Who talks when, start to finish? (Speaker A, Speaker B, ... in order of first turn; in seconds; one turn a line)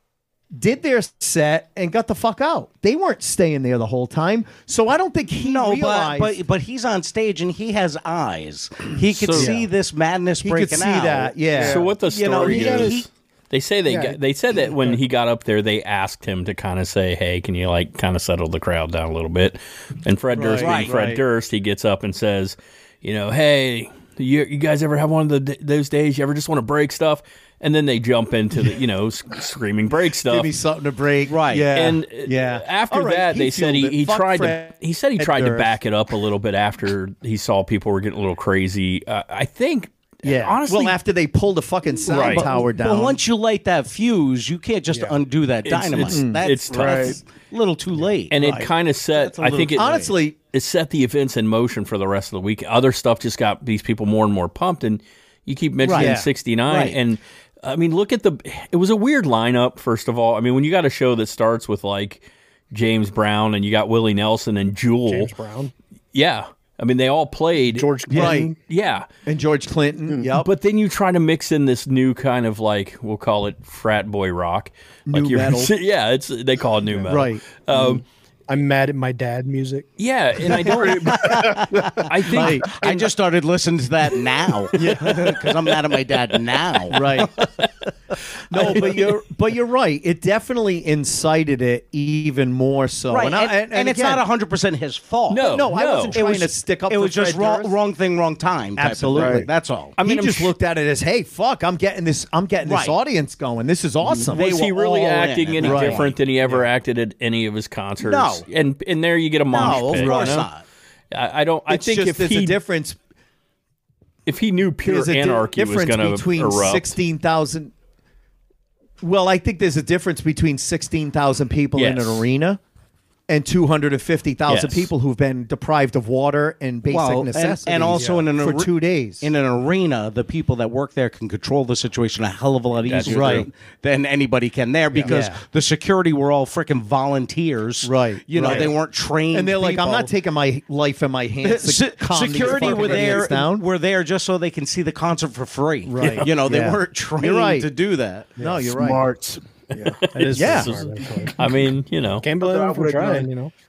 Speaker A: 0.5-6.4
Speaker B: 5.4-11.3
Speaker C: 9.1-9.5
Speaker D: 9.3-9.7
Speaker A: 10.4-11.8
Speaker C: 11.6-30.5
Speaker B: 12.1-13.1
Speaker D: 12.4-12.9
Speaker D: 13.9-14.2
Speaker A: 20.3-21.2
Speaker B: 20.6-21.0
Speaker A: 30.2-35.7
Speaker B: 31.3-31.6
Speaker C: 31.7-41.0
Speaker A: 40.2-43.2
Speaker C: 42.1-42.5
Speaker B: 42.1-48.3
Speaker D: 44.9-45.2
Speaker C: 45.6-47.2
Speaker A: 46.0-46.4
Speaker E: 46.7-47.2
Speaker C: 48.3-49.8
Speaker A: 48.3-48.7
Speaker B: 49.2-50.1
Speaker A: 49.5-50.4
Speaker C: 50.5-65.3
Speaker B: 55.8-56.1
Speaker A: 55.9-56.3
Speaker B: 56.7-57.0
Speaker D: 65.1-65.7
Speaker C: 66.1-69.1
Speaker D: 67.7-68.5
Speaker A: 68.1-68.5
Speaker A: 69.2-70.5
Speaker C: 70.4-78.0
Speaker A: 75.1-75.7
Speaker A: 77.0-78.0
Speaker D: 78.5-79.9
Speaker C: 80.0-82.9
Speaker E: 80.5-82.5
Speaker B: 80.7-81.9
Speaker A: 82.3-82.7
Speaker B: 82.7-87.5
Speaker A: 84.8-85.3
Speaker A: 86.9-87.3
Speaker A: 88.5-94.2
Speaker B: 88.5-89.0
Speaker B: 93.1-99.9
Speaker C: 95.3-96.2
Speaker A: 95.4-97.7
Speaker A: 98.8-104.5
Speaker E: 99.1-99.5
Speaker C: 100.0-100.5
Speaker B: 102.6-102.9
Speaker B: 104.3-106.2
Speaker C: 104.4-110.5
Speaker A: 105.6-106.0
Speaker B: 108.0-108.4
Speaker B: 109.5-110.6
Speaker A: 109.5-110.5
Speaker C: 111.1-112.6
Speaker A: 111.7-113.0
Speaker C: 114.3-116.9
Speaker A: 114.8-117.7
Speaker A: 119.0-122.6
Speaker C: 121.8-122.2
Speaker A: 123.3-129.3
Speaker C: 124.5-124.9
Speaker B: 126.9-128.7
Speaker D: 127.9-128.2
Speaker B: 129.2-140.1
Speaker C: 132.8-133.5
Speaker A: 133.1-133.5
Speaker A: 135.0-135.4
Speaker A: 137.8-138.8
Speaker A: 139.3-143.7
Speaker B: 141.4-148.3
Speaker A: 145.8-147.7
Speaker C: 146.0-146.3
Speaker A: 148.4-149.0
Speaker E: 148.7-150.0
Speaker D: 150.1-151.3
Speaker C: 150.1-152.2
Speaker A: 150.3-150.7
Speaker D: 152.2-153.5
Speaker E: 152.4-153.3